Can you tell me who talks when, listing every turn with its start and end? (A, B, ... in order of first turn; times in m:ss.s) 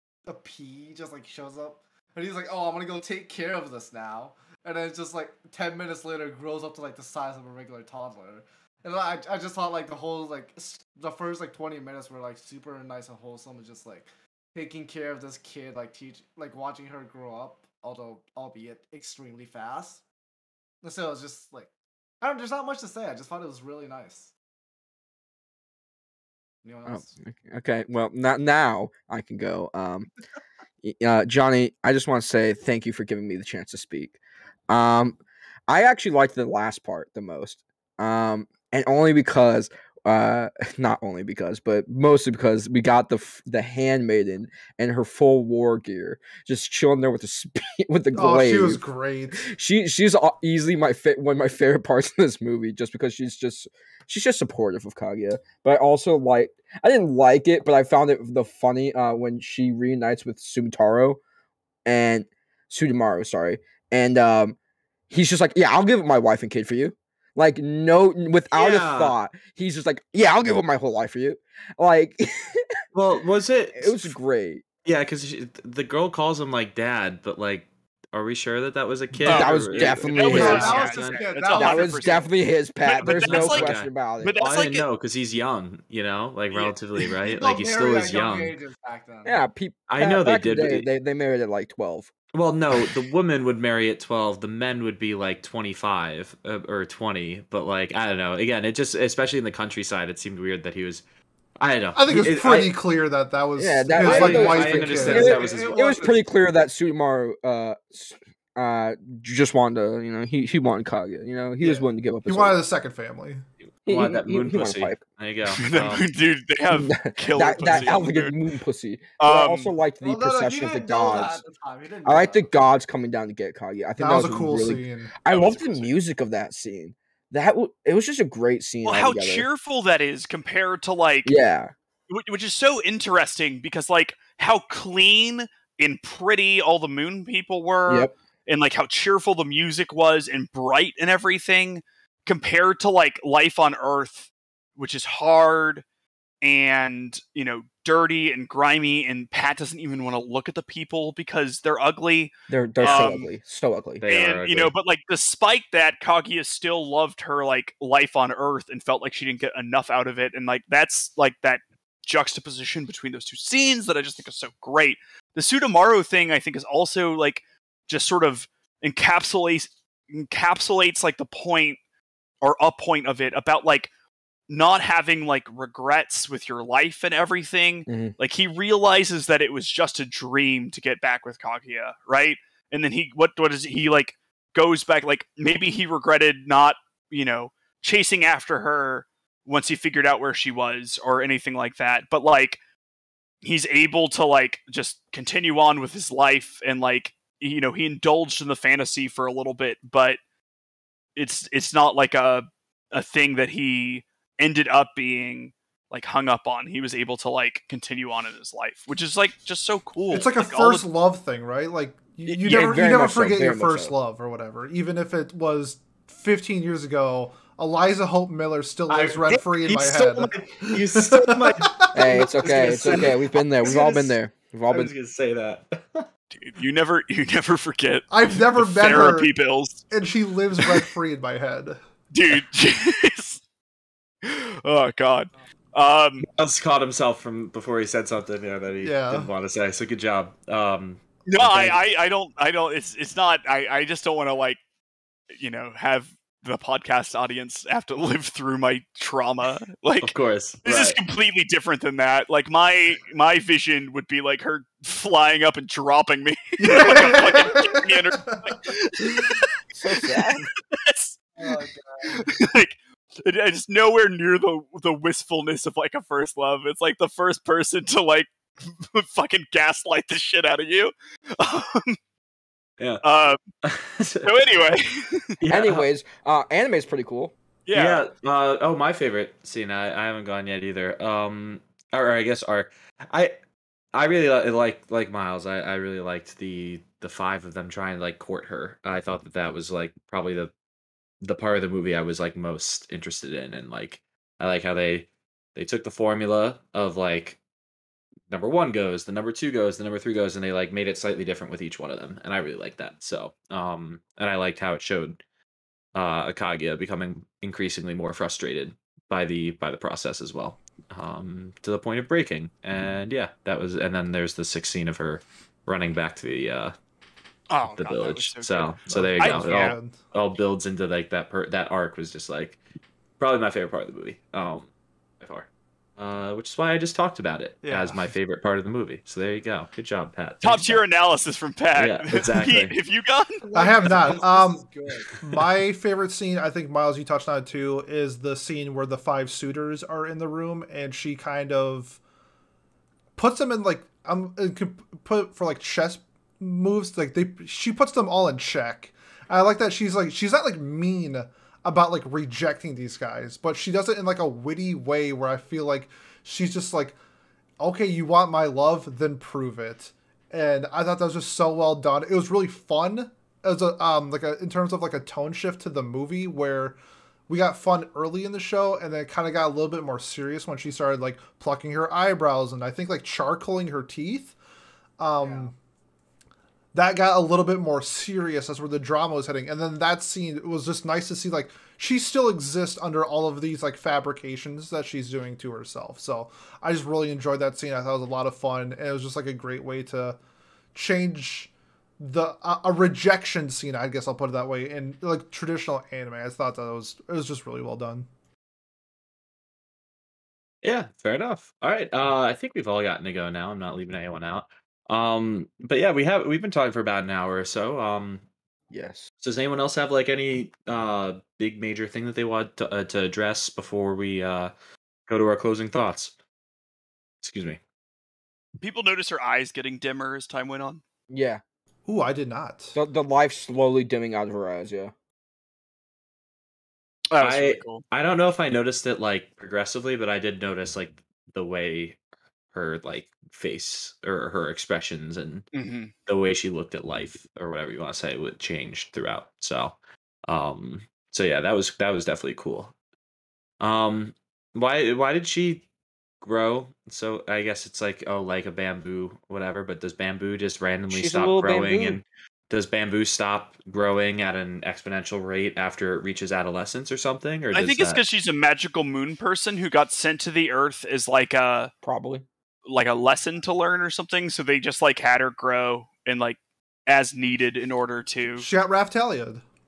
0:00.2-0:20.0 A
0:20.8-0:21.7 A
0:22.2-0:24.3 A
0:26.6-0:27.2 A
0:26.9-0:30.1 B
0:30.8-0:34.2 B
0:34.7-0:48.8 B
0:48.1-0:49.4 C
0:49.3-1:01.2 B
1:01.8-1:04.6 B
1:05.1-1:12.7 B
1:08.5-1:09.1 D
1:12.9-1:14.1 D
1:13.7-1:14.6 B
1:14.8-1:21.2 D
1:19.2-1:20.8 B
1:19.2-1:22.3 E
1:20.0-1:22.2 A
1:21.5-1:24.4 B
1:22.8-1:24.8 E
1:23.0-1:28.5 D
1:27.2-1:29.4 A
1:29.2-1:32.1 B
1:29.9-1:30.9 D
1:32.3-1:41.0 D
1:41.6-1:42.7 D
1:41.9-1:45.4 C
1:43.6-1:52.6 B
1:44.0-1:45.9 D
1:44.9-1:46.3 A
1:52.2-1:53.4 C
1:53.8-1:55.0 B
1:53.8-1:56.0 D
1:55.5-1:58.3 E
1:56.7-2:01.4 B
1:59.2-1:59.7 E
2:00.0-2:02.5 A
2:02.0-2:09.5 B
2:04.0-2:05.1 C
2:05.3-2:05.9 E
2:08.8-2:11.3 E
2:11.2-2:11.7 B
2:12.1-2:25.8 E
2:17.9-2:18.1 B
2:26.4-2:33.3 E
2:32.5-2:34.0 B
2:32.8-2:33.2 D
2:34.0-2:34.7 D
2:34.1-2:51.8 E
2:52.4-2:53.9 E
2:54.5-3:12.6 E
2:57.9-2:58.1 B
3:13.4-3:20.2 E
3:21.2-3:30.8 E
3:30.1-3:43.0 C
3:32.2-3:33.9 B
3:38.9-3:44.2 D
3:41.9-3:44.9 B
3:44.7-3:46.0 D
3:46.3-3:49.8 E
3:48.1-3:49.3 C
3:49.9-3:51.8 C
3:52.1-3:53.4 E
3:54.2-3:56.2 E
3:56.2-4:01.8 D
3:58.8-3:59.3 C
4:01.2-4:04.6 E
4:05.4-4:19.5 E
4:10.0-4:11.0 D
4:16.6-4:18.5 C
4:19.1-4:19.3 C
4:19.7-4:20.5 B
4:20.7-4:21.2 E
4:21.4-4:22.2 A
4:22.3-4:32.0 E
4:33.0-4:33.4 E
4:33.6-4:34.3 D
4:34.2-4:35.4 E
4:35.4-4:35.9 D
4:35.5-4:37.3 B
4:37.7-4:38.0 E
4:37.7-4:43.3 D
4:43.9-4:50.5 D
4:51.2-4:57.4 D
4:58.3-5:05.2 D
5:05.9-5:16.7 D
5:17.5-5:19.7 E
5:17.7-5:22.6 D
5:18.9-5:20.0 C
5:23.2-5:30.8 D
5:27.6-5:28.1 C
5:30.4-5:33.4 E
5:31.7-5:32.7 D
5:33.4-5:35.1 A
5:33.5-5:42.0 C
5:43.2-5:57.0 C
5:57.6-6:14.4 C
6:15.0-6:15.5 C
6:15.2-6:15.5 A
6:16.7-6:30.2 C
6:30.7-6:38.1 C
6:40.6-6:48.2 D
6:48.7-6:49.1 B
6:49.2-6:54.5 D
6:55.1-6:56.1 D
6:57.2-6:57.6 D
6:58.6-7:00.8 E
7:01.1-7:01.4 B
7:01.9-7:02.8 C
7:02.7-7:04.9 B
7:07.1-7:07.8 E
7:07.2-7:12.0 D
7:12.5-7:15.4 D
7:15.5-7:15.9 E
7:16.0-7:22.7 D
7:23.6-7:25.6 D
7:26.2-7:38.0 D
7:30.9-7:32.0 B
7:37.5-7:41.7 E
7:41.8-7:42.2 B
7:42.7-7:48.4 E
7:48.4-7:49.4 C